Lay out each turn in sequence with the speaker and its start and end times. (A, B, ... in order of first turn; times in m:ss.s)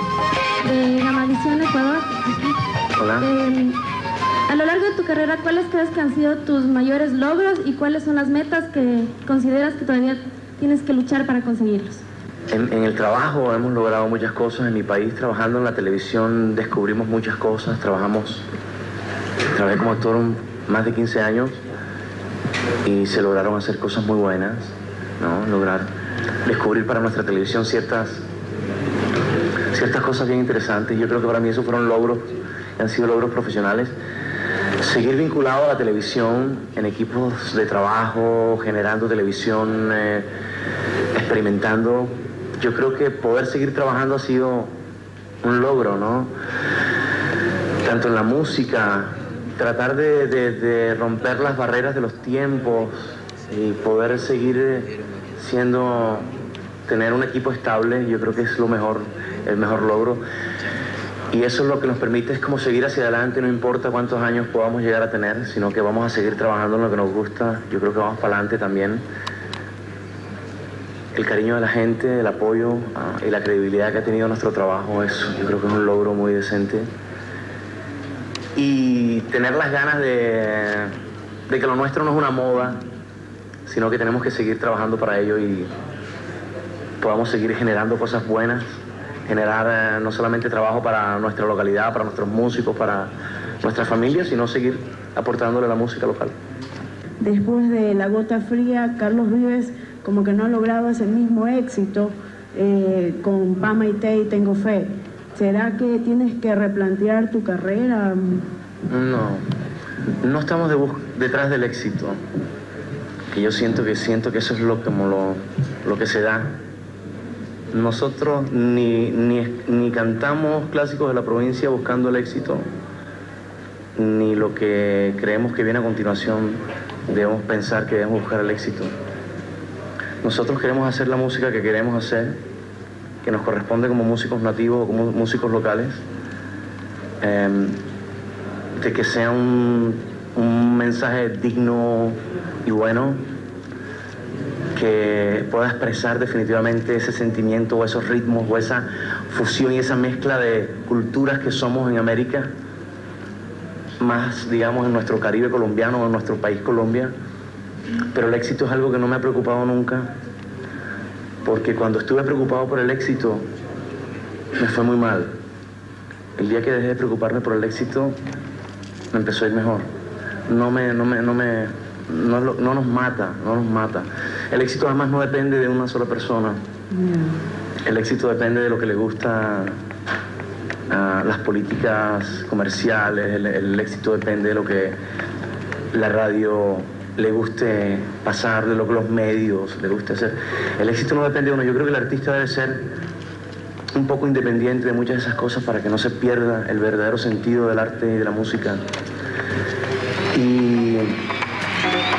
0:00.6-0:02.6 A
0:03.0-0:03.3 B
0:03.2-0:03.8 A
0:04.5-0:12.0 A
0:12.5-0:18.4 B
0:19.5-0:21.6 B
0:22.8-0:25.9 B
0:26.4-0:28.2 B
0:29.7-0:33.9 B
0:34.8-0:40.2 B
0:41.1-0:44.7 B
0:45.4-0:46.3 B
0:47.8-0:56.3 B
0:56.9-1:00.2 B
1:01.3-1:09.0 B
1:11.1-1:16.9 B
1:18.6-1:20.9 B
1:21.5-1:22.8 B
1:23.6-1:25.7 B
1:27.0-1:28.6 B
1:29.2-1:33.1 B
1:33.6-1:36.3 B
1:37.2-1:48.4 C
1:48.9-1:49.4 B
1:50.2-1:52.2 B
1:53.3-1:56.6 B
1:57.7-2:02.6 B
2:04.0-2:08.9 B
2:10.2-2:12.4 B
2:13.2-2:16.0 B
2:17.2-2:17.8 B
2:18.8-2:23.2 B
2:24.7-2:32.5 B
2:34.0-2:37.1 B
2:38.1-2:40.1 B
2:41.4-2:43.4 B
2:44.6-2:45.3 B
2:46.4-2:48.1 B
2:49.1-2:49.8 B
2:50.5-2:56.6 B
2:57.0-2:57.3 C
2:57.8-2:59.7 B
3:00.9-3:04.9 B
3:05.9-3:12.9 B
3:13.9-3:18.8 B
3:20.3-3:21.2 B